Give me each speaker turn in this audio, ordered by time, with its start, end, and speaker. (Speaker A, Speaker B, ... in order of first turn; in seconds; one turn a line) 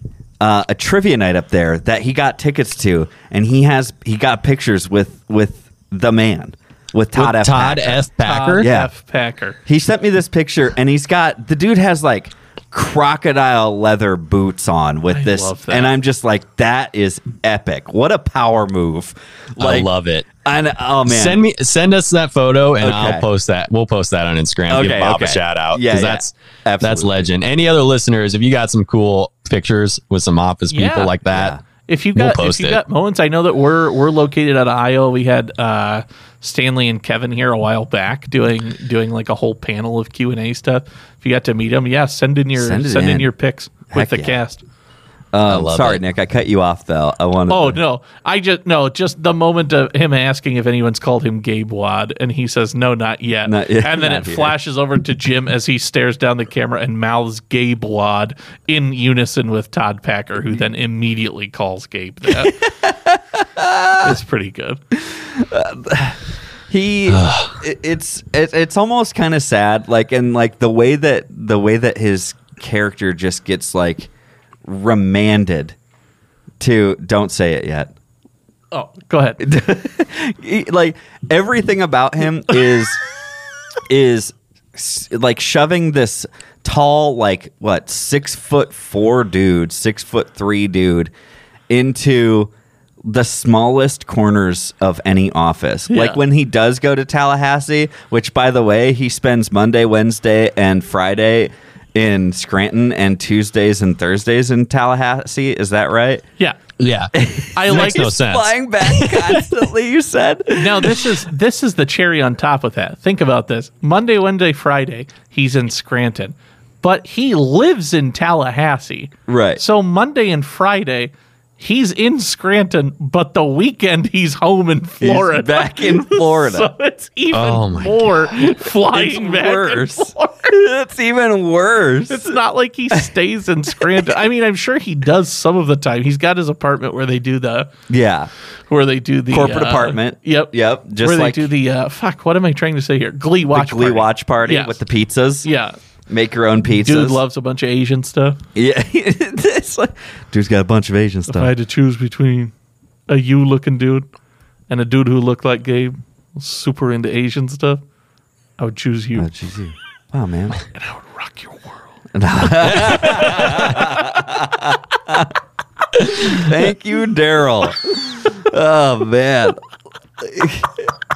Speaker A: 0.4-8.0
Speaker B: 7.1-8.7
Speaker C: 8.2-9.6
Speaker A: 8.6-8.9
Speaker A: 9.7-19.9
Speaker C: 15.1-15.9
Speaker B: 19.6-20.3
Speaker A: 20.4-21.4
Speaker B: 21.1-31.6
Speaker A: 22.8-23.2
Speaker A: 24.7-27.3
Speaker C: 30.7-31.1
Speaker A: 31.3-31.6
Speaker C: 31.9-44.6
Speaker B: 32.1-32.8
Speaker A: 42.5-43.3
Speaker A: 43.9-44.4
Speaker A: 45.3-47.8
Speaker B: 45.4-46.0
Speaker C: 47.5-62.6
Speaker A: 53.4-54.5
Speaker A: 62.4-64.2
Speaker C: 64.0-64.8
Speaker A: 65.0-74.1
Speaker B: 67.1-67.6
Speaker A: 74.6-75.8
Speaker A: 76.6-77.9
Speaker C: 78.7-79.4
Speaker A: 79.4-83.0
Speaker A: 83.9-91.1
Speaker A: 91.7-92.5
Speaker A: 93.0-106.2
Speaker C: 95.9-96.2
Speaker B: 106.8-109.5
Speaker A: 107.1-111.1
Speaker C: 107.5-108.1
Speaker C: 110.5-130.5
Speaker A: 119.3-119.6
Speaker A: 125.0-126.7
Speaker B: 127.3-128.1
Speaker A: 128.4-132.3
Speaker C: 132.1-137.7
Speaker A: 137.9-138.3
Speaker C: 138.7-144.8
Speaker A: 139.3-141.5
Speaker A: 143.5-145.5
Speaker C: 145.4-145.7
Speaker A: 146.1-147.2
Speaker C: 146.8-148.4
Speaker A: 148.5-151.5
Speaker C: 151.3-152.5
Speaker C: 153.1-154.1
Speaker C: 154.7-157.8
Speaker C: 158.6-159.3
Speaker A: 159.2-160.6
Speaker C: 160.7-161.8
Speaker A: 162.1-165.3
Speaker B: 162.7-163.0
Speaker C: 162.7-164.0
Speaker A: 166.0-169.6
Speaker A: 170.2-170.9